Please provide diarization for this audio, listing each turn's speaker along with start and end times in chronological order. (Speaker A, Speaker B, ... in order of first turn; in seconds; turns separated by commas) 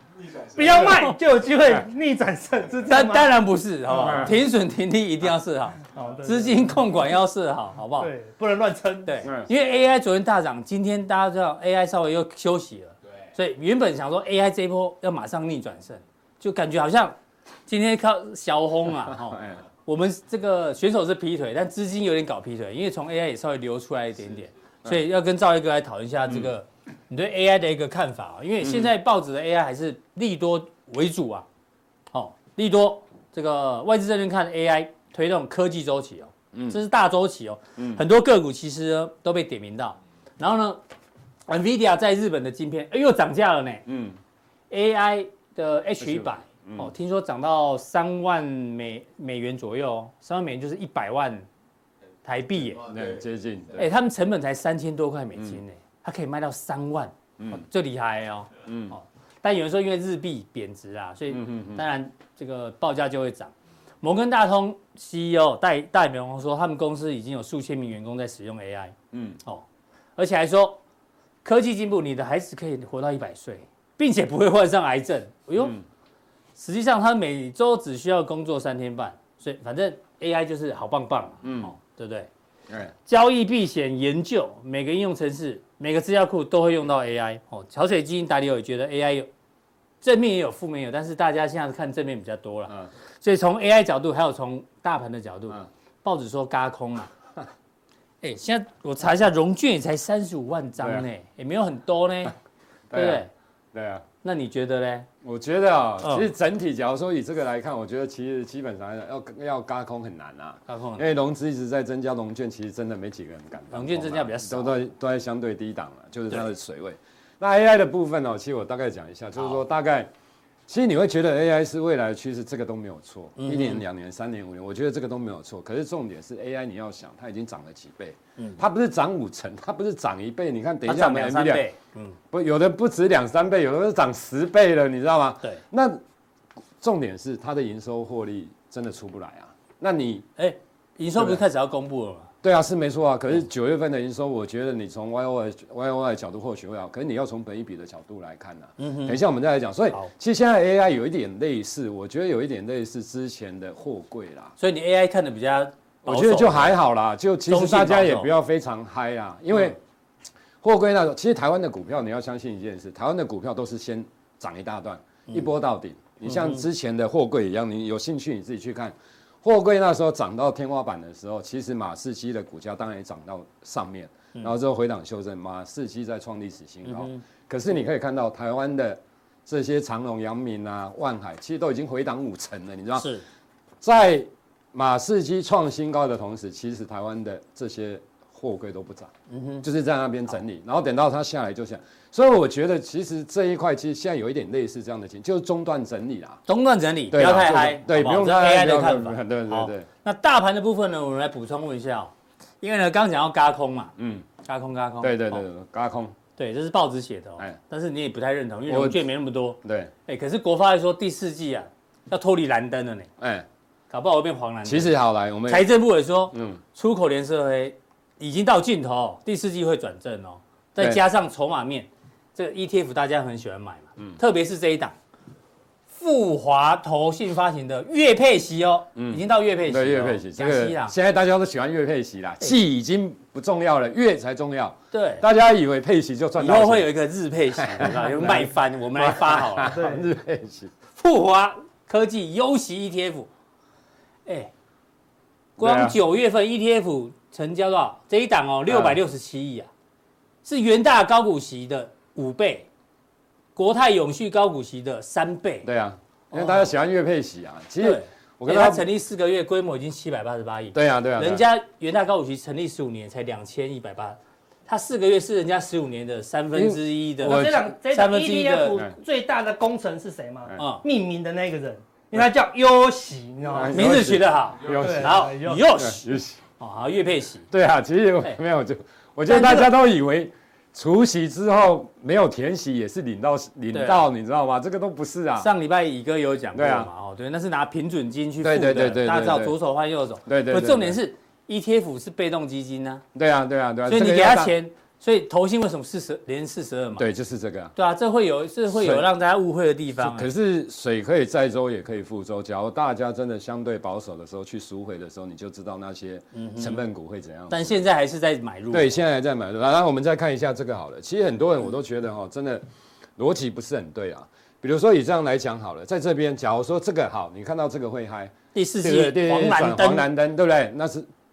Speaker A: 0.4-3.3, Speaker B: 2.9-8.1, Speaker C: 3.9-4.4, Speaker A: 5.9-6.7, Speaker A: 8.0-9.2, Speaker B: 9.1-31.4, Speaker C: 9.2-9.5, Speaker C: 19.1-19.6, Speaker C: 28.6-28.9, Speaker B: 32.1-40.8, Speaker C: 36.5-36.8, Speaker C: 37.8-38.0, Speaker B: 41.5-43.8, Speaker C: 43.9-44.2, Speaker B: 44.7-51.5, Speaker C: 46.0-46.9, Speaker B: 52.2-52.8, Speaker C: 52.8-53.9, Speaker B: 53.8-69.6, Speaker C: 55.4-55.6, Speaker C: 57.4-57.6, Speaker C: 58.6-58.9, Speaker C: 61.3-61.8, Speaker C: 69.1-69.4, Speaker B: 70.2-70.8, Speaker B: 71.4-75.8, Speaker B: 76.5-82.3, Speaker C: 81.4-81.7, Speaker B: 83.0-89.3, Speaker B: 90.0-97.1, Speaker B: 98.2-102.3, Speaker C: 100.8-101.0, Speaker C: 102.9-104.0, Speaker B: 102.9-103.3, Speaker B: 104.2-105.1, Speaker C: 105.2-120.1, Speaker B: 106.0-106.3, Speaker B: 110.7-111.0, Speaker B: 113.7-114.8, Speaker C: 120.7-131.6, Speaker B: 123.4-123.8, Speaker B: 130.8-132.2, Speaker C: 132.3-136.0, Speaker C: 136.8-140.3, Speaker B: 140.4-142.3, Speaker C: 141.2-141.4, Speaker C: 142.4-154.5, Speaker B: 148.8-149.2, Speaker B: 154.6-156.8, Speaker C: 156.0-159.8, Speaker B: 157.5-158.3, Speaker C: 160.6-183.1, Speaker B: 166.3-166.6, Speaker B: 176.8-177.2, Speaker B: 183.0-183.2, Speaker C: 183.8-196.4, Speaker B: 189.3-189.6, Speaker B: 196.5-205.4, Speaker C: 197.1-199.9, Speaker C: 204.0-204.2, Speaker C: 205.0-206.1, Speaker B: 206.4-213.1, Speaker C: 208.7-209.0, Speaker C: 209.6-209.9, Speaker C: 213.2-213.5, Speaker B: 213.9-214.9, Speaker C: 214.6-215.7, Speaker B: 215.5-224.9, Speaker C: 216.3-216.6, Speaker B: 225.9-230.9, Speaker C: 228.9-236.9, Speaker B: 234.9-235.2, Speaker B: 236.4-239.8, Speaker C: 237.6-240.7, Speaker A: 239.7-240.0, Speaker B: 240.9-243.3, Speaker B: 244.2-244.5, Speaker C: 245.6-246.0, Speaker B: 245.6-249.7, Speaker C: 248.7-249.0, Speaker B: 250.4-252.7, Speaker B: 253.5-255.7, Speaker C: 255.6-258.9, Speaker B: 256.3-256.7, Speaker B: 257.8-268.8, Speaker C: 260.7-261.4, Speaker C: 266.5-267.6, Speaker A: 267.2-273.9, Speaker B: 270.6-270.8, Speaker C: 273.5-276.4, Speaker B: 273.7-276.0, Speaker A: 274.7-275.6, Speaker B: 276.6-277.5, Speaker C: 277.5-285.5, Speaker A: 279.3-279.6, Speaker B: 283.7-284.1, Speaker B: 285.4-293.0, Speaker C: 286.5-286.9, Speaker C: 288.4-289.5, Speaker C: 290.2-291.0, Speaker C: 293.1-294.5, Speaker B: 293.9-297.1, Speaker C: 297.0-297.7, Speaker B: 297.7-300.3, Speaker C: 298.7-299.1, Speaker C: 300.0-307.8, Speaker B: 306.3-306.8, Speaker B: 307.5-308.9, Speaker C: 308.7-312.6, Speaker C: 313.2-321.1, Speaker B: 318.5-320.1